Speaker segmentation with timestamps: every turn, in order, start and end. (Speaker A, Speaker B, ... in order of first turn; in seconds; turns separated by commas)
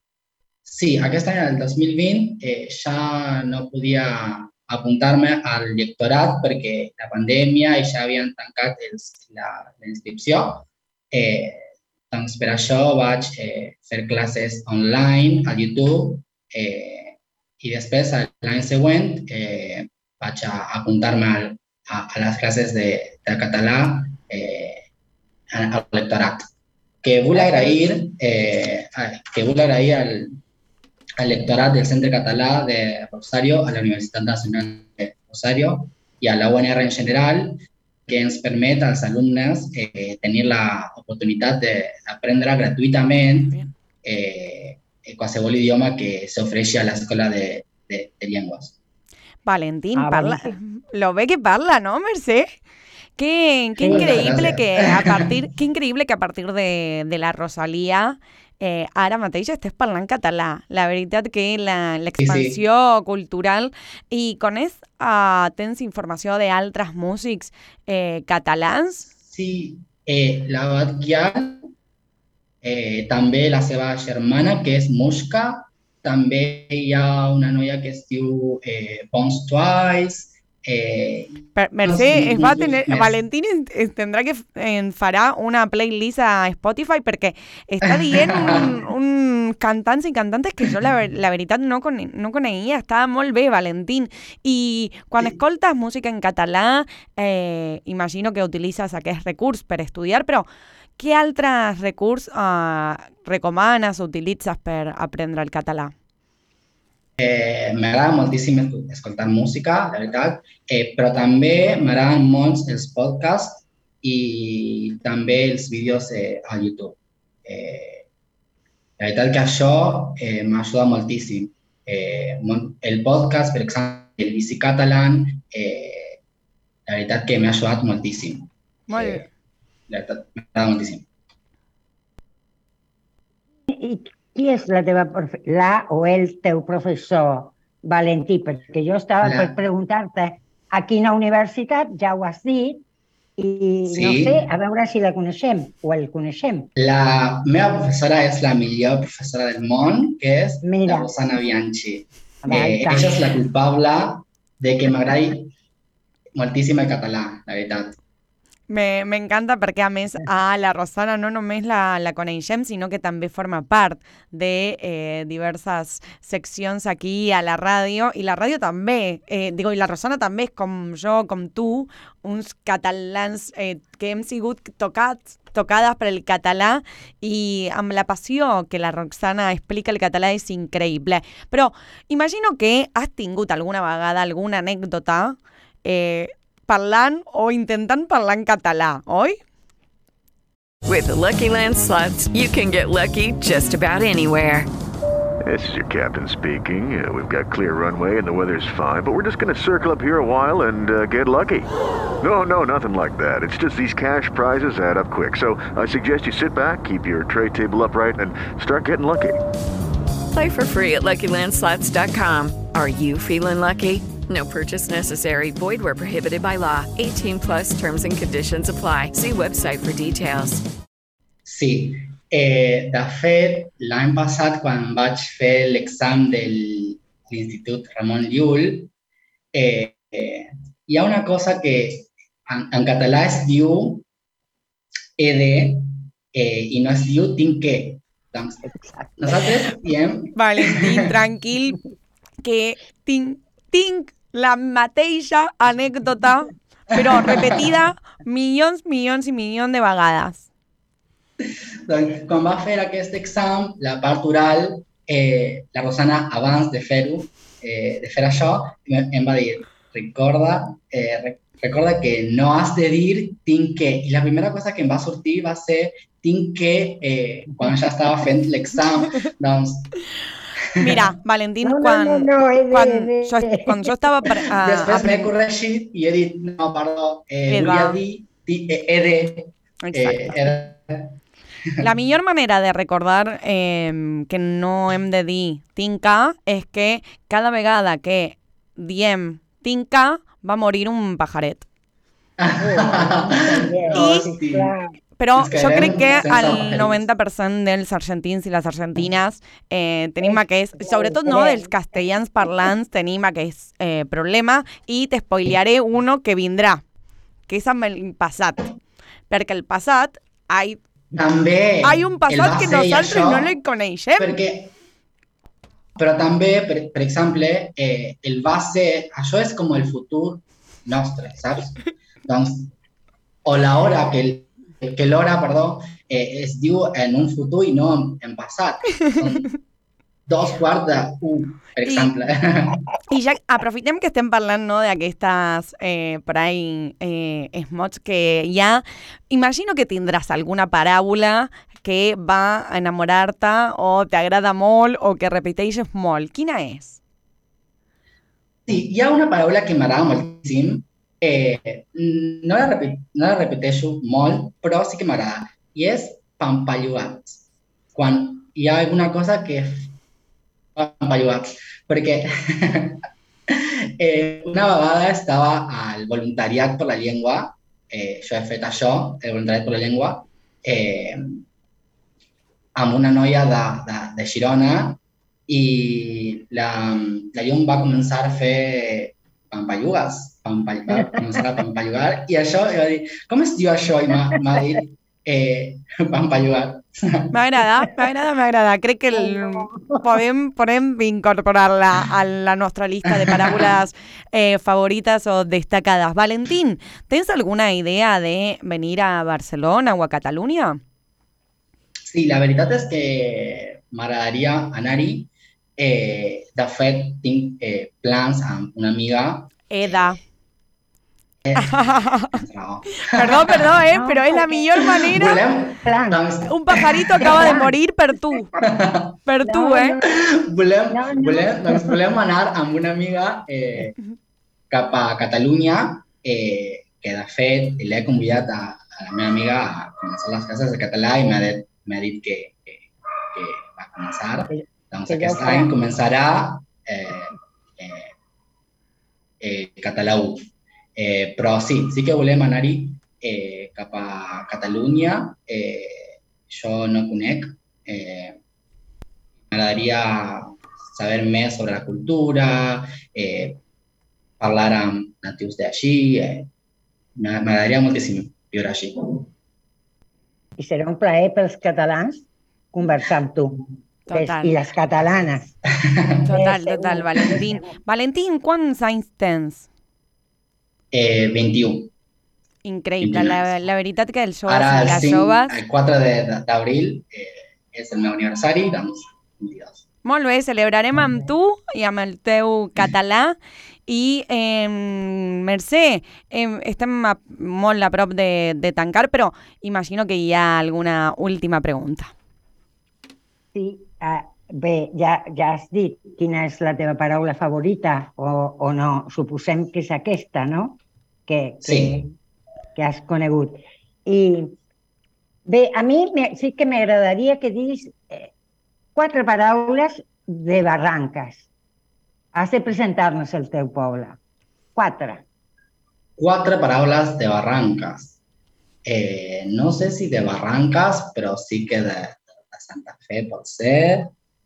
Speaker A: 0.7-24.8, Speaker A: 25.5-26.5, Speaker A: 27.0-30.4, Speaker B: 27.4-27.8, Speaker A: 31.2-48.7, Speaker C: 49.5-52.5, Speaker B: 49.9-50.6, Speaker C: 53.2-69.1, Speaker B: 53.8-54.5, Speaker A: 53.9-55.3, Speaker A: 62.2-62.6, Speaker A: 69.2-71.7, Speaker A: 72.6-83.2, Speaker C: 81.6-100.5, Speaker A: 87.8-88.7, Speaker C: 101.0-105.9, Speaker A: 107.2-118.0, Speaker A: 119.0-126.2, Speaker A: 126.9-129.3, Speaker C: 128.9-129.2, Speaker A: 129.9-131.1, Speaker B: 133.7-142.8, Speaker A: 139.2-139.6, Speaker B: 143.4-146.7, Speaker A: 143.9-144.5, Speaker A: 146.8-155.5, Speaker B: 150.6-151.1, Speaker B: 152.4-153.2, Speaker A: 156.4-157.9, Speaker C: 158.7-189.4, Speaker D: 190.8-194.7, Speaker E: 195.4-201.7, Speaker E: 202.2-209.4, Speaker D: 210.3-220.6, Speaker A: 221.4-228.9, Speaker A: 229.5-234.0, Speaker A: 235.2-238.6, Speaker B: 238.7-239.3, Speaker A: 239.2-241.1, Speaker C: 240.4-241.8, Speaker C: 242.4-250.5, Speaker A: 246.9-247.7, Speaker A: 251.9-269.9, Speaker C: 270.8-275.3, Speaker A: 270.8-271.1, Speaker B: 271.6-273.9, Speaker A: 274.5-281.1, Speaker C: 277.5-278.0, Speaker C: 279.8-280.4, Speaker C: 281.8-291.6, Speaker A: 292.4-294.7, Speaker B: 292.6-294.9, Speaker C: 293.9-294.3, Speaker C: 295.2-306.8, Speaker A: 295.4-297.0, Speaker B: 300.2-301.7, Speaker C: 307.5-308.7, Speaker C: 309.3-310.8, Speaker A: 311.1-313.5, Speaker C: 311.8-314.3, Speaker A: 314.2-314.7, Speaker A: 315.9-322.7, Speaker A: 323.4-329.5, Speaker A: 330.3-332.8, Speaker C: 331.9-332.1, Speaker C: 333.1-347.0, Speaker A: 348.7-357.4, Speaker A: 357.9-359.9, Speaker A: 360.8-371.4, Speaker A: 372.7-387.3, Speaker B: 380.9-381.2, Speaker B: 384.4-384.6, Speaker C: 387.3-400.8, Speaker B: 389.1-390.1, Speaker A: 393.3-393.6, Speaker A: 402.1-410.2, Speaker C: 409.7-410.2, Speaker A: 411.4-413.8, Speaker C: 411.6-412.3, Speaker C: 413.1-415.4, Speaker B: 413.9-414.8, Speaker A: 414.9-417.6, Speaker B: 415.8-416.2, Speaker C: 416.5-418.5, Speaker B: 417.4-417.8, Speaker A: 418.6-419.1, Speaker C: 419.2-420.0, Speaker B: 419.4-420.1, Speaker A: 420.1-423.9, Speaker B: 420.9-422.0, Speaker A: 424.7-438.1, Speaker B: 434.5-435.7, Speaker A: 439.4-448.4, Speaker A: 449.5-453.6, Speaker A: 454.4-456.5, Speaker A: 457.1-459.3, Speaker B: 460.6-465.6, Speaker C: 464.1-464.6, Speaker C: 466.2-469.7, Speaker B: 466.3-467.6, Speaker A: 470.9-471.9, Speaker C: 472.6-475.6, Speaker A: 473.0-473.5, Speaker A: 474.5-479.8, Speaker C: 480.1-483.4, Speaker C: 483.9-492.1, Speaker B: 493.6-502.1, Speaker A: 501.6-502.0, Speaker B: 502.8-504.5, Speaker B: 505.4-508.3, Speaker B: 508.9-511.5, Speaker B: 512.3-514.2, Speaker B: 514.8-515.2, Speaker A: 516.2-518.2, Speaker A: 518.8-524.1